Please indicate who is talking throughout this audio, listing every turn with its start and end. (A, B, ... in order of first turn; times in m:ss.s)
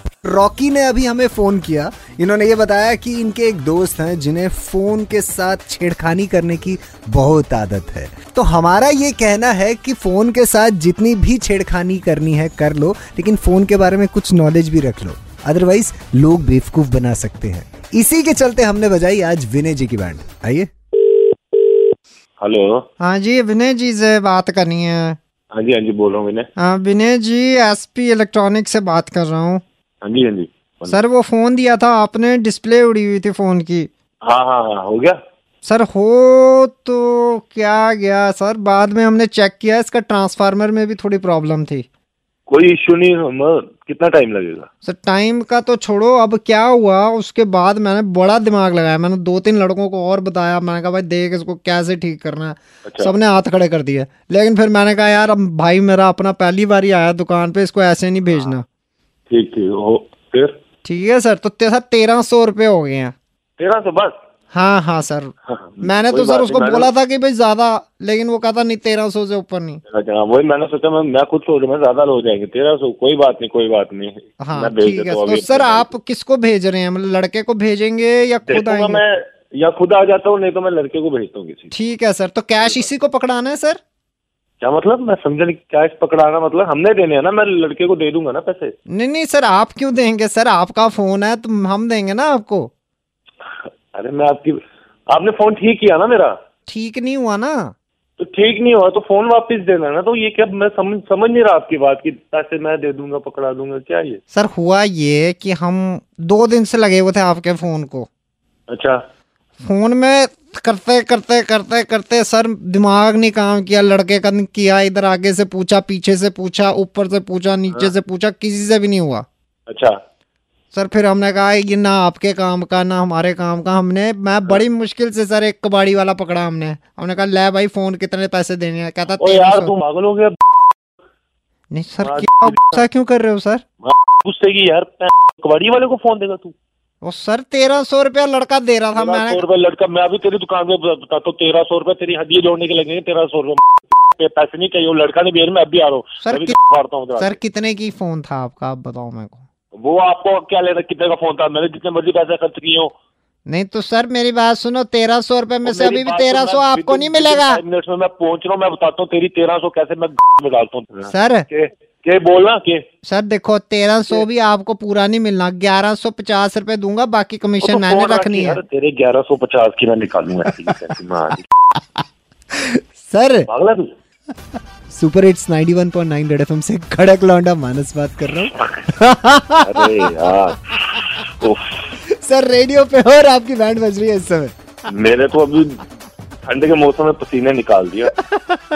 0:00.3-0:20.7 A
0:22.4-0:22.8 B
0:23.0-0:25.2 C
0:25.5-0:26.5 B
0:26.6-0:29.6 C
0:30.0-0:31.0 B
0:30.9-0:33.9 C
0:34.2-0:35.2 B
0:35.6-0:41.8 C
0:42.5-0:44.7 B
0:44.8-0:58.6 C
0:52.8-0:53.1 B
0:59.3-1:00.6 B
1:00.8-1:03.1 C
1:03.6-1:04.2 B
1:04.5-1:09.8 C
1:05.5-1:06.9 B
1:09.9-1:15.9 B
1:14.4-1:19.0 C
1:18.4-1:21.7 B
1:21.7-1:23.8 C
1:22.6-1:22.9 B
1:24.6-1:28.7 B
1:28.9-1:32.7 C
1:33.9-1:36.4 B
1:36.7-1:37.7 C
1:38.2-1:44.2 B
1:44.3-1:48.1 C
1:48.7-1:49.0 B
1:49.6-1:59.2 C
1:59.7-1:59.9 B
2:00.7-2:09.7 C
2:09.2-2:10.7 B
2:11.7-2:13.6 C
2:12.0-2:12.8 B
2:13.8-2:16.5 B
2:17.0-2:19.4 C
2:19.0-2:27.4 B
2:26.2-2:26.6 C
2:27.2-2:29.4 C
2:29.8-2:32.9 B
2:33.4-2:37.6 C
2:35.6-2:42.8 B
2:41.1-2:41.4 C
2:43.0-2:48.6 C
2:47.6-2:51.4 B
2:53.1-2:53.4 C
2:53.4-2:53.9 B
2:55.0-2:58.2 A
2:56.2-2:56.6 C
2:58.5-2:58.9 B
2:59.5-3:01.8 B
3:02.3-3:04.3 C
3:03.3-3:04.4 A
3:04.9-3:05.8 B
3:06.4-3:08.1 B